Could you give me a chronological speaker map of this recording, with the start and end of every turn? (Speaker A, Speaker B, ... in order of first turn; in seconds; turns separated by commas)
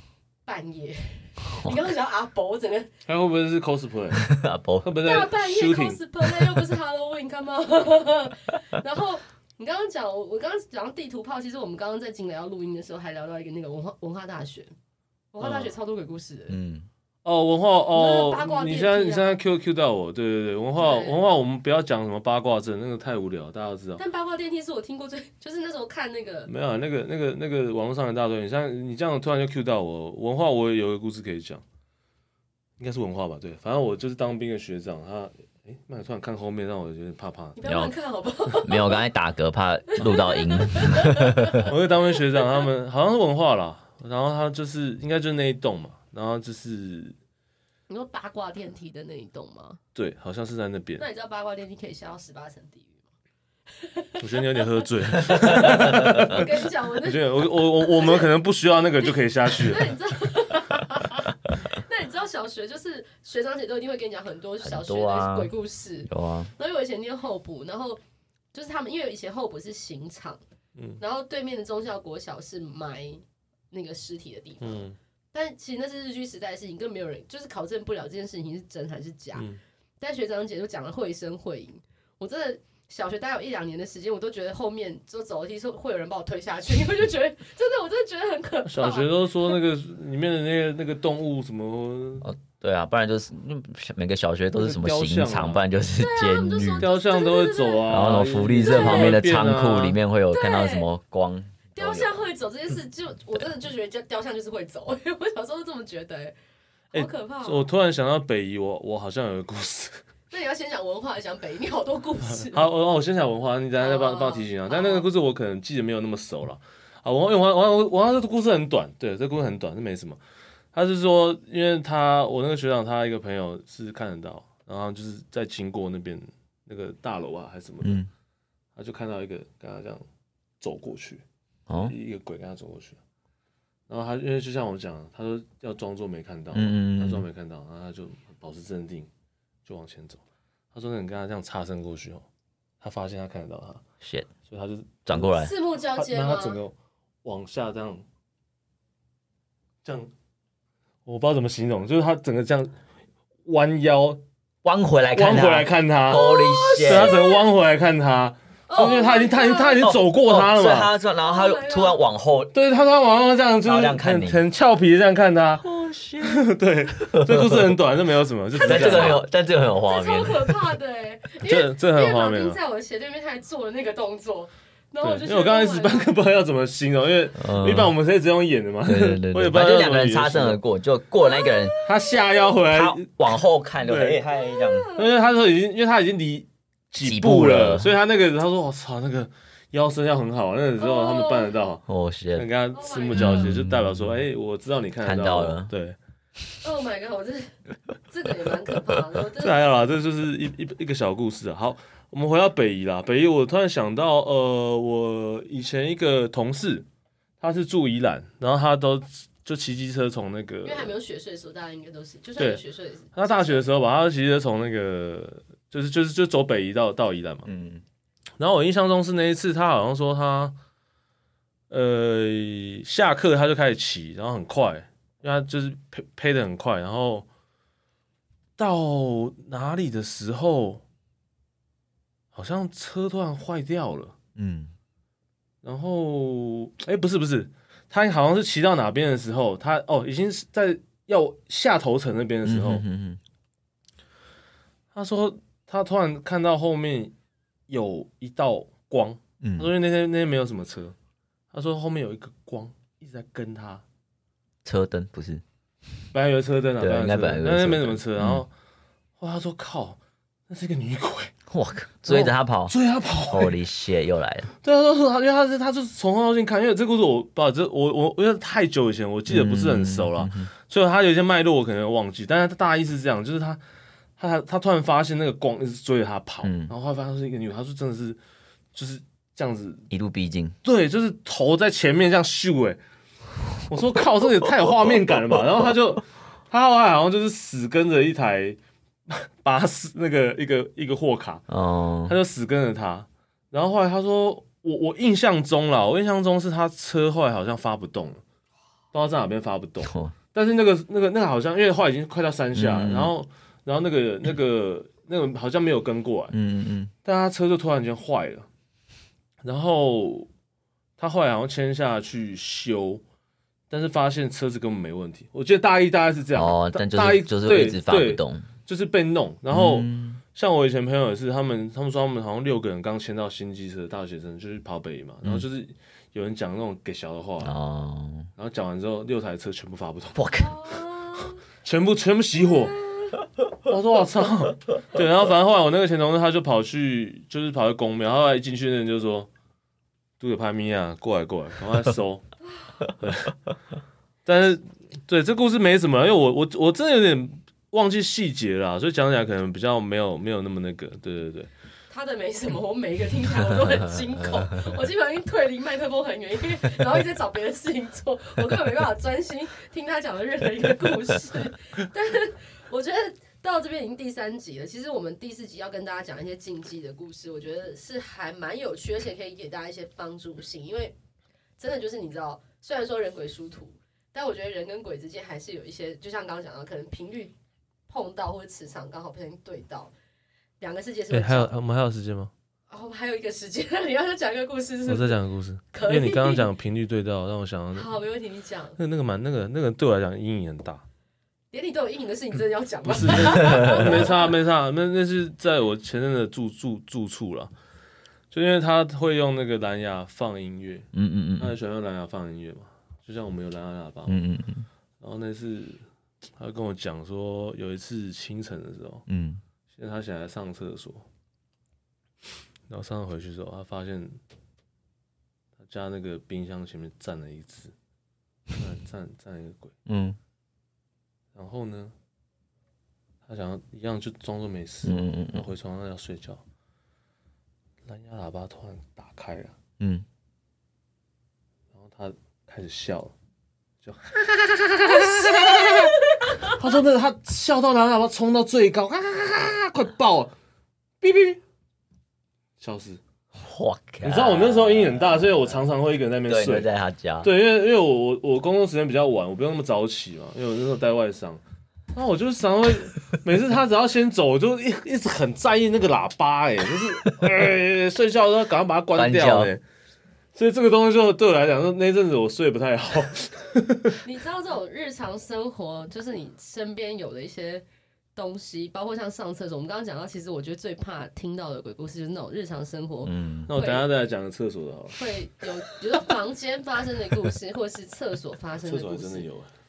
Speaker A: 0.4-2.9, Speaker B: 3.0-4.3, Speaker C: 4.1-4.9, Speaker B: 4.8-6.0, Speaker A: 5.0-14.7, Speaker A: 15.3-16.6, Speaker B: 15.4-15.7, Speaker C: 16.5-16.9, Speaker B: 17.2-24.0, Speaker A: 17.9-19.4, Speaker A: 20.8-21.2, Speaker A: 24.0-26.5, Speaker B: 26.5-31.6, Speaker B: 32.8-37.6, Speaker A: 37.5-39.0, Speaker C: 37.6-37.9, Speaker C: 38.6-41.7, Speaker A: 39.9-41.7, Speaker B: 41.6-47.1, Speaker A: 47.9-49.8, Speaker B: 49.9-51.0, Speaker A: 51.0-53.0, Speaker A: 53.7-58.3, Speaker B: 54.2-59.9, Speaker C: 55.6-56.2, Speaker A: 59.6-68.0, Speaker C: 64.6-65.5, Speaker C: 66.1-66.5, Speaker A: 68.5-70.4, Speaker B: 70.8-71.0, Speaker A: 71.0-79.5, Speaker B: 74.6-75.0, Speaker A: 80.0-89.5, Speaker B: 88.7-92.3, Speaker C: 92.2-96.9, Speaker B: 94.5-95.6, Speaker A: 96.0-98.1, Speaker B: 96.8-100.0, Speaker C: 97.9-102.2, Speaker A: 98.7-99.2, Speaker A: 100.3-100.9, Speaker A: 101.8-106.3, Speaker A: 106.9-107.7, Speaker B: 106.9-110.0, Speaker A: 110.3-112.7, Speaker B: 112.3-120.2, Speaker A: 113.8-115.1, Speaker B: 120.7-128.0, Speaker C: 127.8-128.1, Speaker B: 128.8-130.0, Speaker B: 130.6-131.2, Speaker C: 131.7-131.9, Speaker B: 131.8-133.0, Speaker B: 133.9-139.1, Speaker C: 136.5-137.2, Speaker B: 139.7-140.2, Speaker B: 140.7-142.2, Speaker B: 142.8-143.8, Speaker C: 144.0-144.3, Speaker B: 144.5-148.0, Speaker C: 145.1-145.5, Speaker A: 145.3-146.6, Speaker B: 149.8-150.1, Speaker B: 151.1-152.7, Speaker B: 153.4-154.2, Speaker C: 154.6-157.2, Speaker B: 155.1-160.9, Speaker A: 156.1-157.4, Speaker A: 158.7-159.9, Speaker C: 159.7-162.5, Speaker A: 161.2-162.0, Speaker B: 162.5-165.6, Speaker C: 163.6-164.4, Speaker C: 165.6-166.4, Speaker B: 166.2-169.2, Speaker C: 167.1-167.8, Speaker A: 168.5-169.2, Speaker C: 168.6-170.6, Speaker A: 169.8-176.1, Speaker B: 171.4-172.6, Speaker B: 175.0-180.6, Speaker C: 177.3-177.9, Speaker C: 178.8-181.8, Speaker A: 181.4-181.7, Speaker B: 181.8-184.2, Speaker C: 182.7-184.9, Speaker A: 184.4-185.1, Speaker B: 184.9-191.8, Speaker C: 187.0-187.9, Speaker A: 190.8-191.6, Speaker C: 191.9-192.5, Speaker B: 192.3-196.0, Speaker A: 192.7-193.5, Speaker C: 193.1-194.2, Speaker C: 195.0-195.7, Speaker A: 196.6-197.5, Speaker A: 198.1-199.6, Speaker B: 199.4-206.8, Speaker B: 207.4-210.9, Speaker A: 210.6-213.7, Speaker B: 213.1-217.5, Speaker C: 217.4-217.8, Speaker B: 218.4-220.6, Speaker B: 221.7-227.3, Speaker B: 228.6-230.8, Speaker B: 232.3-234.2, Speaker C: 234.3-234.7, Speaker B: 235.6-242.8, Speaker C: 242.4-243.2, Speaker B: 244.9-247.1, Speaker B: 247.7-250.9, Speaker C: 249.4-249.7, Speaker B: 251.5-253.8, Speaker C: 254.6-255.4, Speaker B: 256.1-258.5, Speaker C: 256.8-258.4, Speaker B: 259.2-260.0, Speaker B: 260.5-261.3, Speaker C: 261.5-264.5, Speaker B: 262.1-263.6, Speaker B: 264.6-273.6, Speaker C: 269.3-270.5, Speaker B: 274.2-278.2, Speaker C: 276.4-276.7, Speaker B: 278.7-279.9, Speaker C: 279.9-280.6, Speaker B: 280.6-282.8, Speaker B: 283.7-291.4, Speaker C: 291.5-292.1, Speaker B: 292.1-298.2, Speaker B: 298.9-306.3, Speaker C: 299.8-300.1, Speaker C: 302.5-303.1, Speaker C: 306.3-306.9, Speaker B: 307.0-308.5, Speaker B: 309.4-310.3, Speaker B: 311.0-313.0, Speaker B: 313.7-327.6, Speaker C: 316.3-318.5, Speaker C: 319.5-320.2, Speaker C: 327.4-328.3, Speaker B: 328.4-330.2, Speaker C: 330.1-330.6, Speaker A: 330.4-331.4, Speaker B: 331.5-332.8, Speaker A: 332.6-332.9, Speaker B: 333.6-339.3, Speaker B: 340.2-342.2, Speaker B: 343.0-343.3, Speaker B: 344.2-351.5, Speaker A: 351.9-370.9, Speaker A: 371.6-377.3, Speaker A: 377.9-379.9, Speaker A: 380.6-381.5, Speaker B: 381.1-382.3, Speaker A: 382.7-385.2, Speaker B: 384.9-388.0, Speaker A: 385.7-386.5, Speaker A: 387.7-388.8, Speaker B: 388.8-390.8, Speaker A: 391.5-394.3, Speaker B: 392.9-397.5, Speaker C: 393.3-394.1, Speaker B: 398.3-404.2, Speaker C: 400.9-401.6, Speaker C: 404.1-404.7, Speaker B: 405.0-405.8, Speaker B: 406.4-409.0, Speaker C: 409.1-409.4, Speaker B: 409.7-411.1, Speaker B: 412.7-414.2, Speaker B: 415.6-417.7, Speaker B: 418.5-419.7, Speaker C: 419.9-420.2, Speaker B: 421.3-421.9, Speaker B: 423.3-426.4, Speaker C: 424.8-425.5, Speaker B: 427.9-429.6, Speaker C: 429.8-430.1, Speaker B: 431.7-433.1, Speaker B: 433.8-440.3, Speaker A: 434.9-436.5, Speaker B: 441.0-441.4, Speaker B: 442.6-443.0, Speaker C: 443.3-445.7, Speaker B: 444.0-446.7, Speaker C: 446.3-447.3, Speaker B: 447.2-451.4, Speaker B: 451.9-459.6, Speaker C: 458.9-459.5, Speaker B: 460.4-464.0, Speaker A: 464.0-467.6, Speaker A: 468.1-473.9, Speaker C: 473.0-473.5, Speaker B: 473.5-475.0, Speaker A: 474.9-479.3, Speaker B: 478.6-479.5